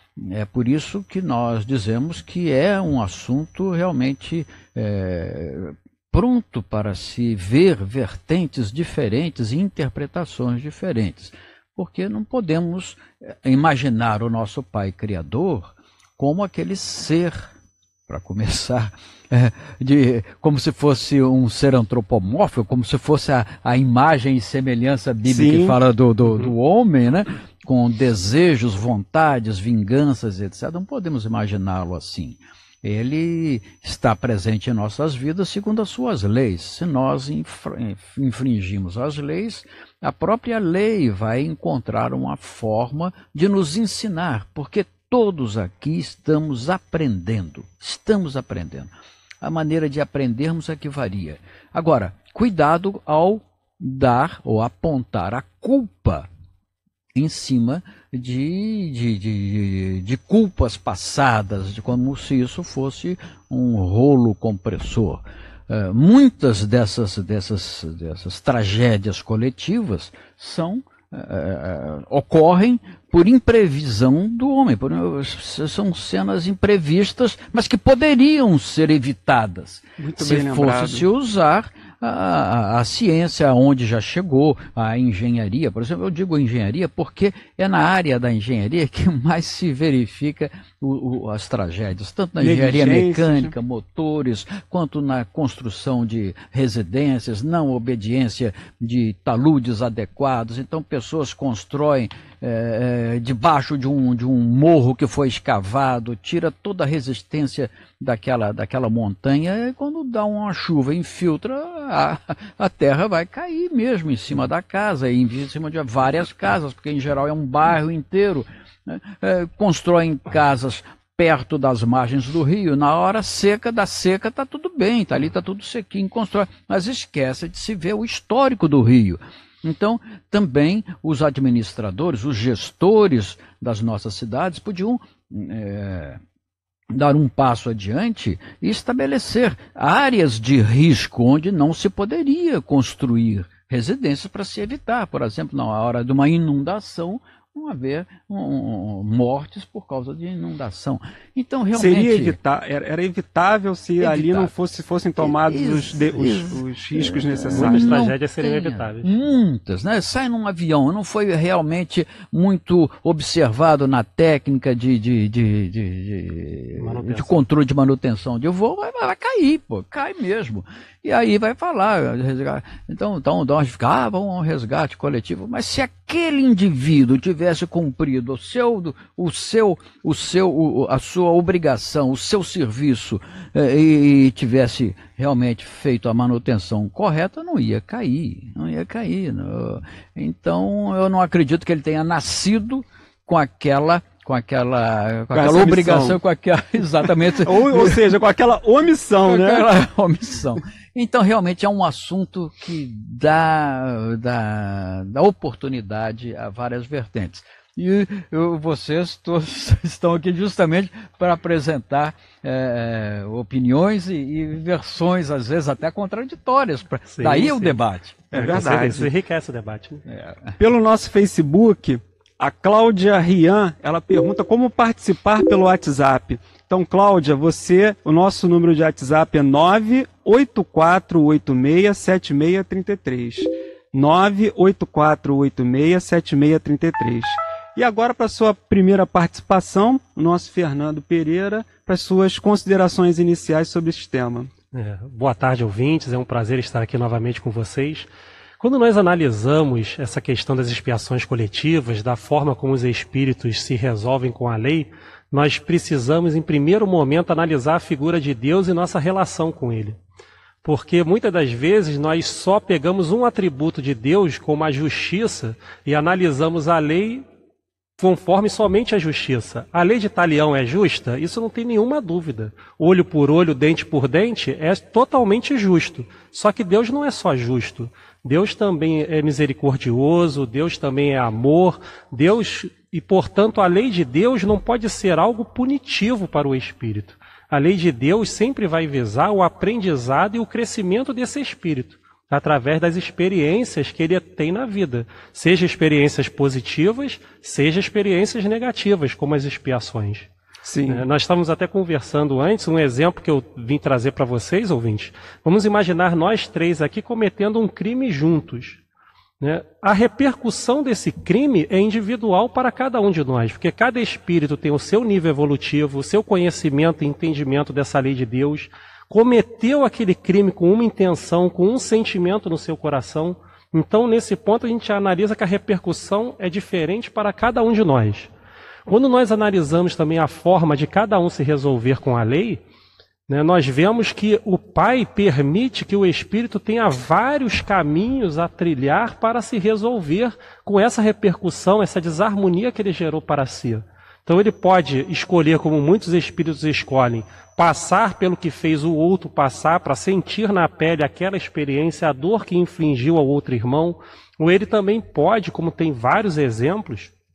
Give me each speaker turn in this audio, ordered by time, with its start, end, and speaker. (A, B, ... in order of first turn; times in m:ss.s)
0:00.2-0:17.5 A
0:18.1-0:56.3 A
0:25.2-0:25.7 B
0:57.1-2:16.2 A
1:20.0-1:21.0 B
1:32.4-1:33.5 B
2:16.9-2:32.4 A
2:31.7-2:38.0 B
2:34.0-2:34.5 A
2:35.2-3:18.0 A
2:37.6-2:39.1 C
2:46.8-2:47.3 C
3:15.3-3:16.2 B
3:17.3-3:19.7 B
3:19.2-3:38.3 A
3:37.1-3:37.8 C
3:38.3-3:39.1 B
3:38.3-3:40.0 C
3:40.1-3:40.6 A
3:40.6-4:04.5 B
4:04.7-4:08.1 C
4:08.6-4:20.0 C
4:20.6-4:27.2 C
4:28.0-5:00.3 C
5:00.6-5:01.0 B
5:00.9-5:08.8 C
5:09.4-5:28.3 C
5:28.9-5:32.6 C
5:33.3-5:57.1 C